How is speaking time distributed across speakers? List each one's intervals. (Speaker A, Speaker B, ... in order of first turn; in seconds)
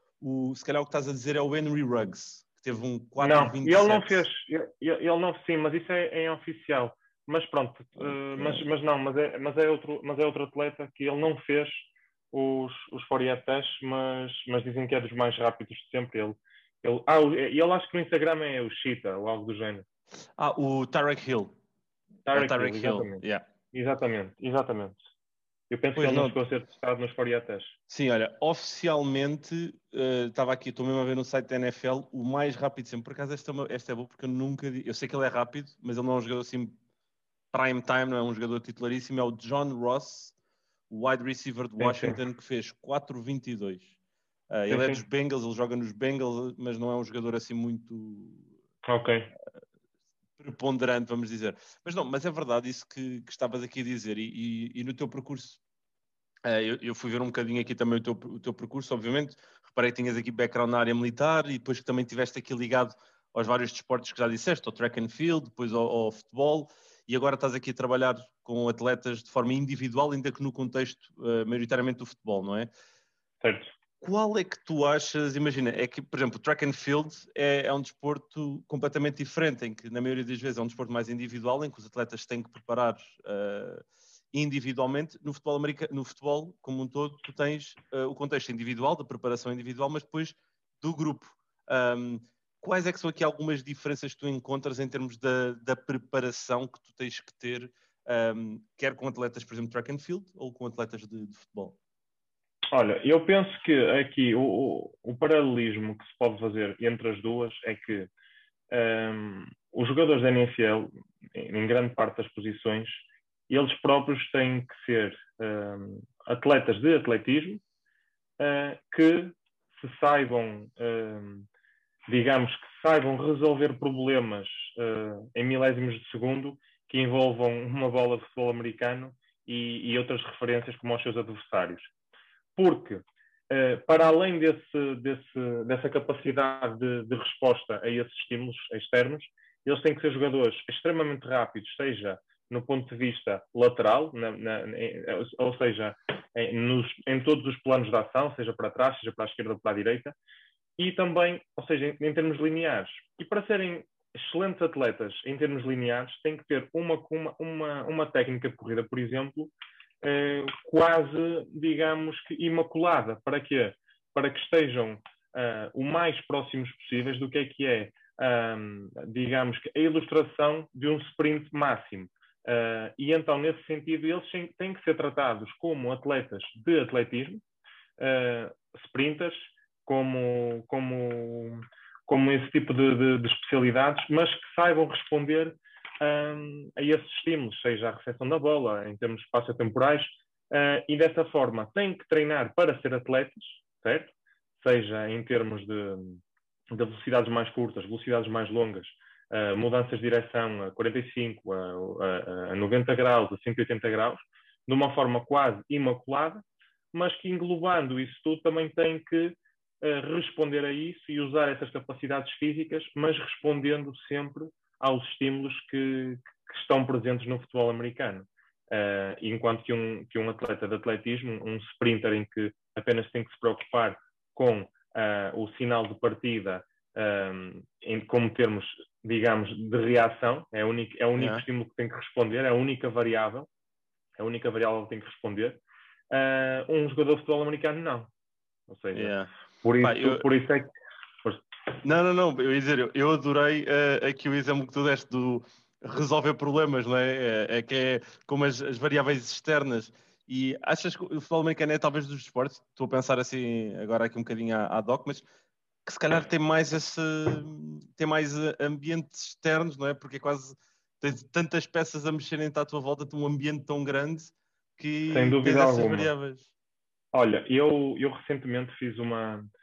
Speaker A: 0.2-4.2, 8.0-8.6, 20.4-21.5, 22.4-23.4, 26.0-26.4, 27.9-36.8, 37.5-40.4, 40.9-43.9, 44.5-48.5, 50.4-55.6, 56.5-72.7, 74.0-101.8, 231.2-231.4, 238.9-239.3, 239.8-240.3, 241.8-255.2, 255.8-266.5
Speaker B: 3.2-19.9, 22.3-25.0, 25.7-27.7, 41.8-42.2, 44.7-45.0, 48.8-49.3, 73.4-73.7, 102.7-108.1, 108.7-117.6, 118.4-121.5, 122.1-131.9, 132.6-150.2, 150.8-177.4, 178.0-233.5, 234.2-238.1, 238.7-240.7, 265.1-266.1, 267.1-269.5